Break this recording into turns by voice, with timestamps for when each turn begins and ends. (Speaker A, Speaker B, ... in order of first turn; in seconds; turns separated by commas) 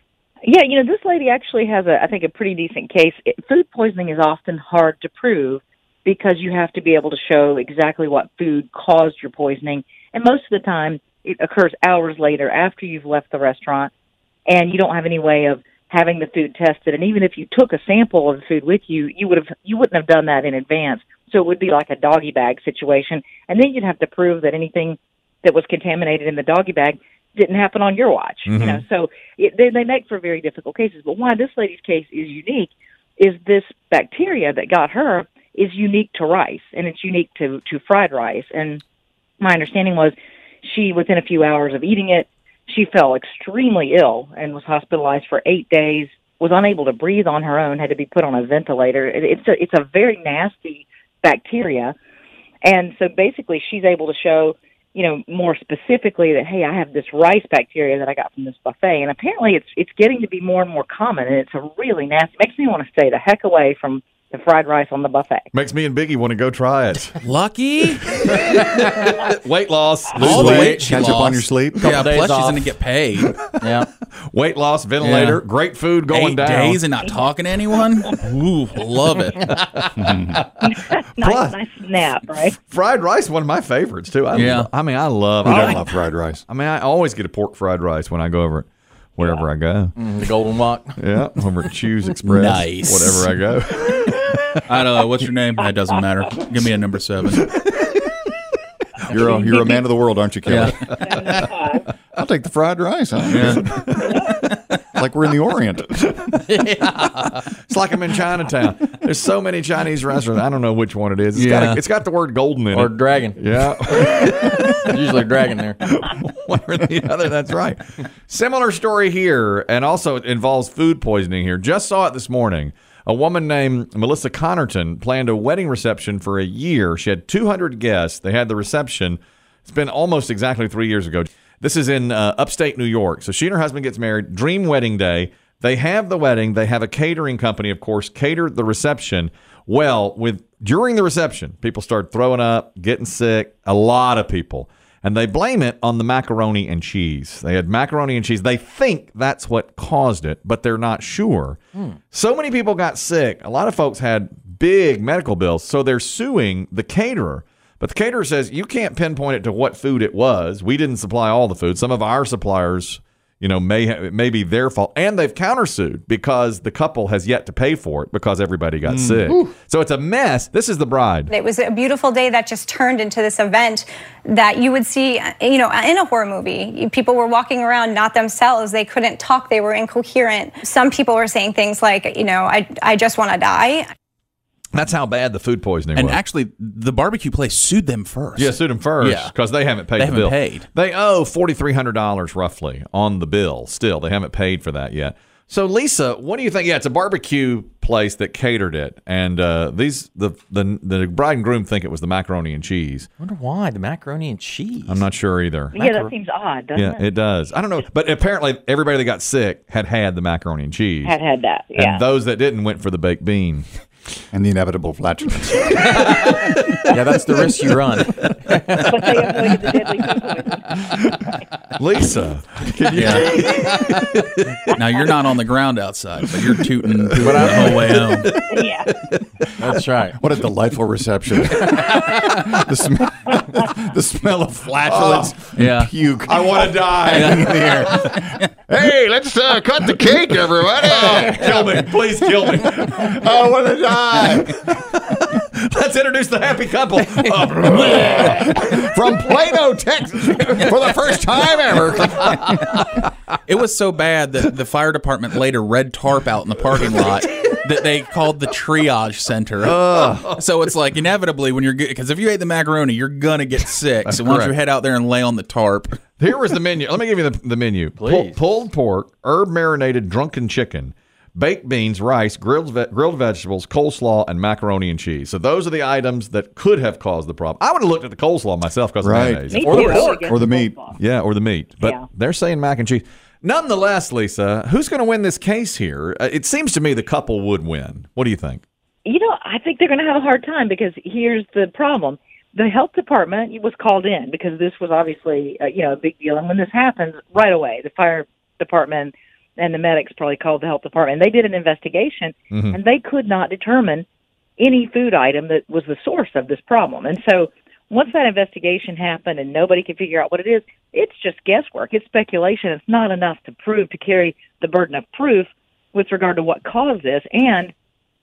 Speaker A: 0.5-13.9, Speaker A: 14.5-38.8, Speaker B: 28.5-28.8, Speaker A: 39.4-52.0, Speaker A: 52.6-65.5, Speaker B: 65.5-67.2, Speaker C: 67.2-68.2, Speaker B: 68.2-70.8, Speaker D: 68.4-68.8, Speaker C: 68.8-69.1, Speaker C: 70.2-73.4, Speaker E: 70.2-72.0, Speaker D: 70.5-70.8, Speaker D: 71.8-72.6, Speaker D: 73.6-73.9, Speaker B: 74.3-76.8, Speaker C: 75.0-75.4, Speaker C: 76.1-80.1, Speaker E: 80.0-80.4, Speaker A: 80.6-82.6, Speaker B: 81.2-81.6, Speaker B: 82.6-85.8, Speaker C: 84.3-84.7, Speaker E: 85.5-86.4, Speaker B: 86.5-90.0, Speaker D: 90.0-91.0, Speaker B: 91.0-94.5, Speaker C: 92.2-93.3, Speaker C: 94.7-97.6, Speaker E: 99.1-101.0, Speaker A: 101.0-101.8, Speaker E: 102.1-103.6, Speaker C: 103.3-103.6, Speaker B: 103.7-104.2, Speaker E: 104.9-106.1, Speaker D: 106.4-107.4, Speaker B: 107.2-115.0, Speaker C: 111.4-111.8, Speaker D: 112.7-113.4, Speaker D: 114.1-115.8, Speaker B: 115.8-171.3, Speaker E: 168.8-169.4, Speaker F: 171.3-183.9, Speaker B: 184.8-186.2, Speaker C: 185.9-189.3, Speaker B: 188.4-203.1, Speaker C: 189.9-190.7, Speaker D: 203.2-205.1, Speaker B: 204.9-205.8, Speaker A: 205.7-207.1, Speaker D: 205.8-206.1, Speaker B: 206.8-211.2, Speaker A: 211.0-212.0, Speaker B: 211.8-213.7, Speaker E: 214.3-216.1, Speaker B: 216.1-216.7, Speaker D: 216.9-219.0, Speaker A: 218.8-220.9, Speaker B: 221.0-224.7, Speaker C: 222.9-223.4, Speaker C: 224.7-228.4, Speaker D: 227.2-228.0, Speaker B: 227.4-229.4, Speaker A: 228.5-228.9, Speaker D: 229.6-230.2, Speaker E: 230.2-244.7, Speaker B: 234.8-235.3, Speaker C: 235.6-235.9, Speaker B: 236.3-237.8, Speaker B: 240.8-243.5, Speaker B: 244.2-249.0, Speaker E: 247.6-252.9, Speaker C: 253.4-266.0, Speaker B: 259.6-260.4, Speaker B: 264.1-264.5, Speaker B: 266.2-280.2, Speaker D: 268.0-268.4, Speaker E: 279.0-280.8, Speaker A: 279.5-281.0, Speaker B: 281.0-288.6, Speaker A: 289.1-304.1, Speaker B: 302.5-302.8, Speaker A: 304.6-317.7